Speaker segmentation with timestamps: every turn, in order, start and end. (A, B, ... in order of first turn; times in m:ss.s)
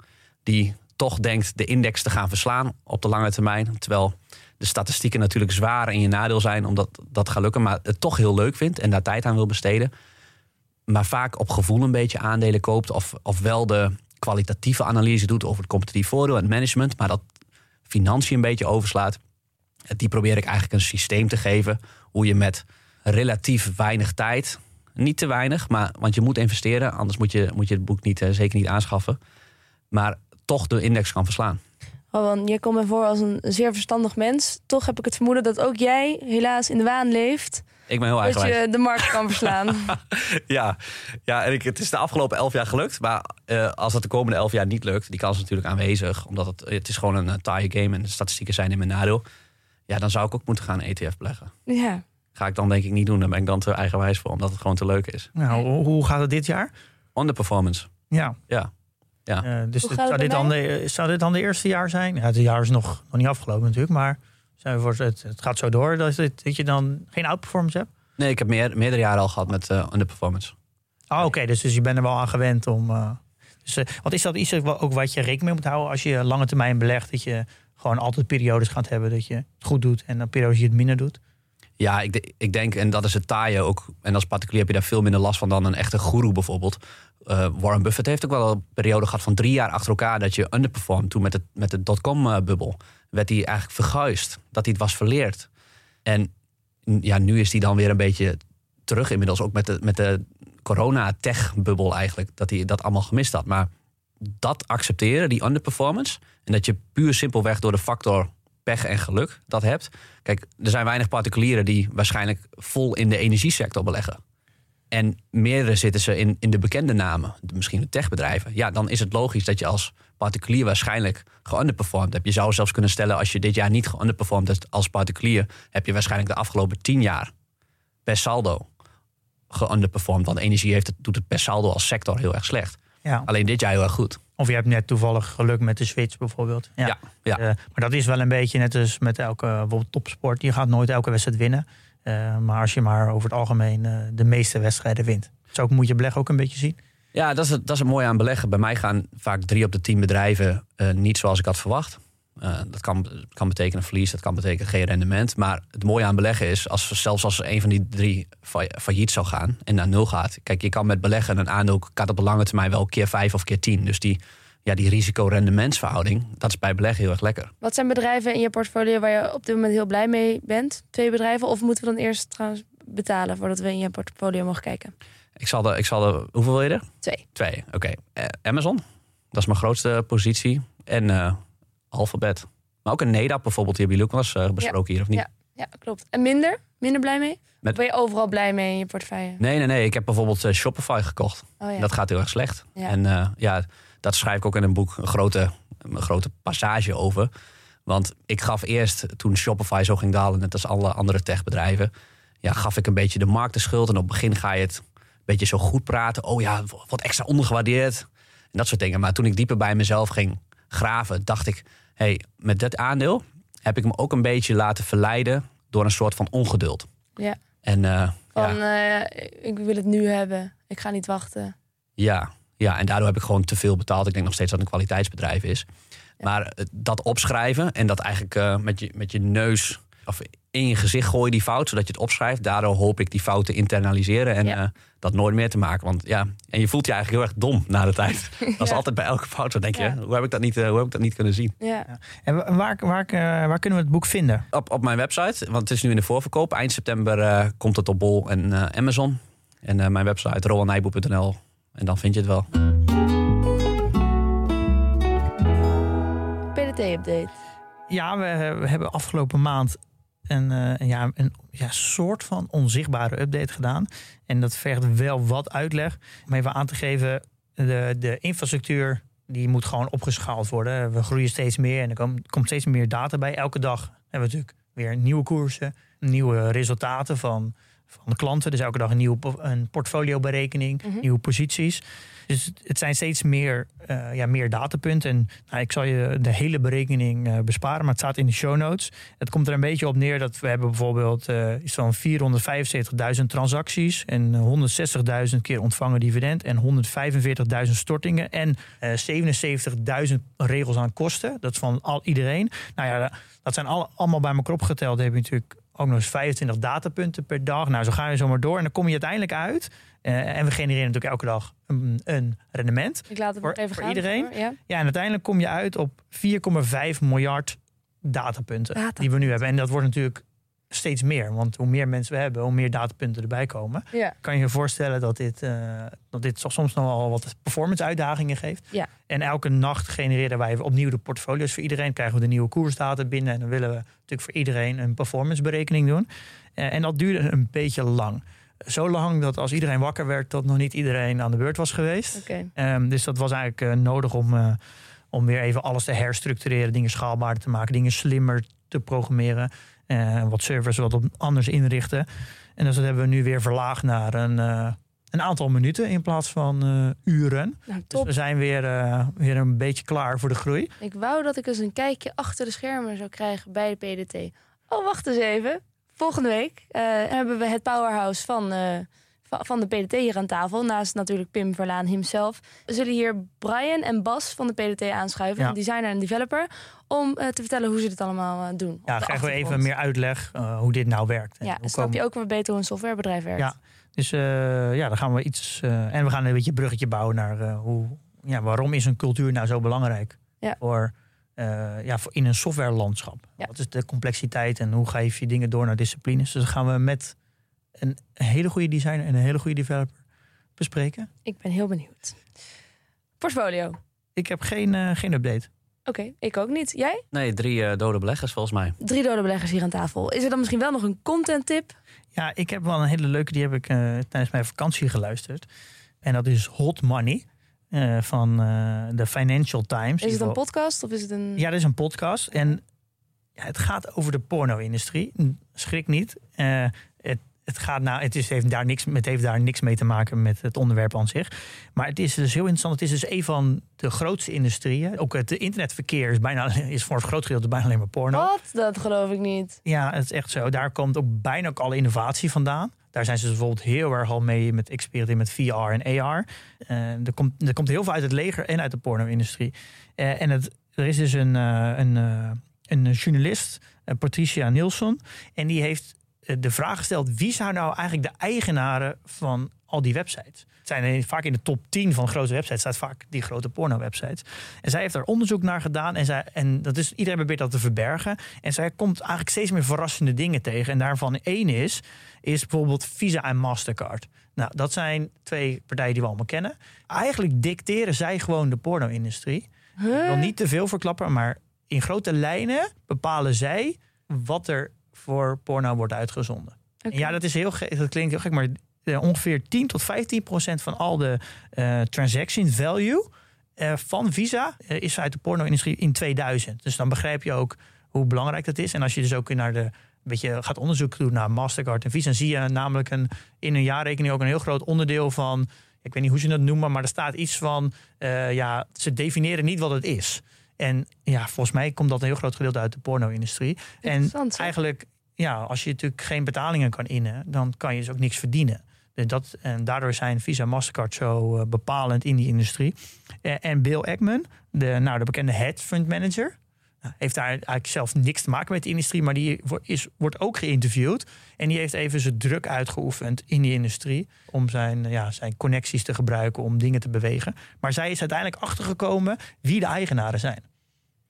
0:00.4-0:09.9 A
0:10.9-0:17.2 A
0:17.9-0:19.2 A
0:19.9-0:29.2 A
0:29.9-0:31.6 A
0:32.1-0:37.6 B
0:37.9-0:38.6 A
0:38.2-0:40.0 B
0:39.9-0:49.2 A
0:49.9-0:51.5 A
0:51.7-0:52.0 B
0:52.4-0:55.3 A
0:55.4-0:56.7 C
0:57.2-0:57.9 A
0:58.1-0:58.4 C
0:59.4-1:07.9 C
0:59.8-1:00.5 B
1:08.2-1:10.5 A
1:11.1-1:21.2 C
1:21.8-1:35.5 A
1:36.9-1:43.7 A
1:44.2-1:54.2 A
1:54.9-2:07.3 A
2:08.1-2:08.7 A
2:09.5-2:14.2 A
2:14.4-2:26.8 C
2:16.8-2:17.4 A
2:27.1-2:47.5 A
2:47.6-2:54.9 B
2:55.4-3:01.4 A
3:01.9-3:05.2 A
3:04.6-3:09.4 B
3:09.4-3:17.3 A
3:11.6-3:11.9 B
3:17.9-3:21.9 A
3:22.4-3:36.9 A
3:37.6-3:38.6 A
3:38.4-3:41.6 B
3:42.0-3:45.7 A
3:46.2-4:01.6 A
4:01.6-4:01.9 B
4:01.9-4:04.4 C
4:04.5-4:12.5 A
4:16.6-4:17.3 B
4:17.9-5:44.6 C
5:13.1-5:14.6 B
5:18.8-5:19.1 B
5:42.1-5:42.5 B
5:45.1-6:00.7 C
5:57.7-5:58.1 B
6:00.8-6:19.7 B
6:18.9-6:22.0 C
6:21.4-6:23.5 B
6:23.4-6:37.1 C
6:37.8-6:40.0 C
6:40.6-6:41.1 C
6:41.3-6:42.2 B
6:43.2-6:43.8 B
6:44.2-6:45.5 C
6:45.9-6:47.0 B
6:47.1-6:48.8 A
6:48.8-6:51.8 B
6:52.1-6:55.4 C
6:56.0-7:00.4 C
7:00.0-7:01.4 B
7:01.4-7:02.6 C
7:03.4-7:18.3 C
7:18.1-7:19.6 B
7:19.6-9:00.4 C
7:59.8-8:00.3 B
8:06.8-8:07.1 B
8:33.8-8:34.5 B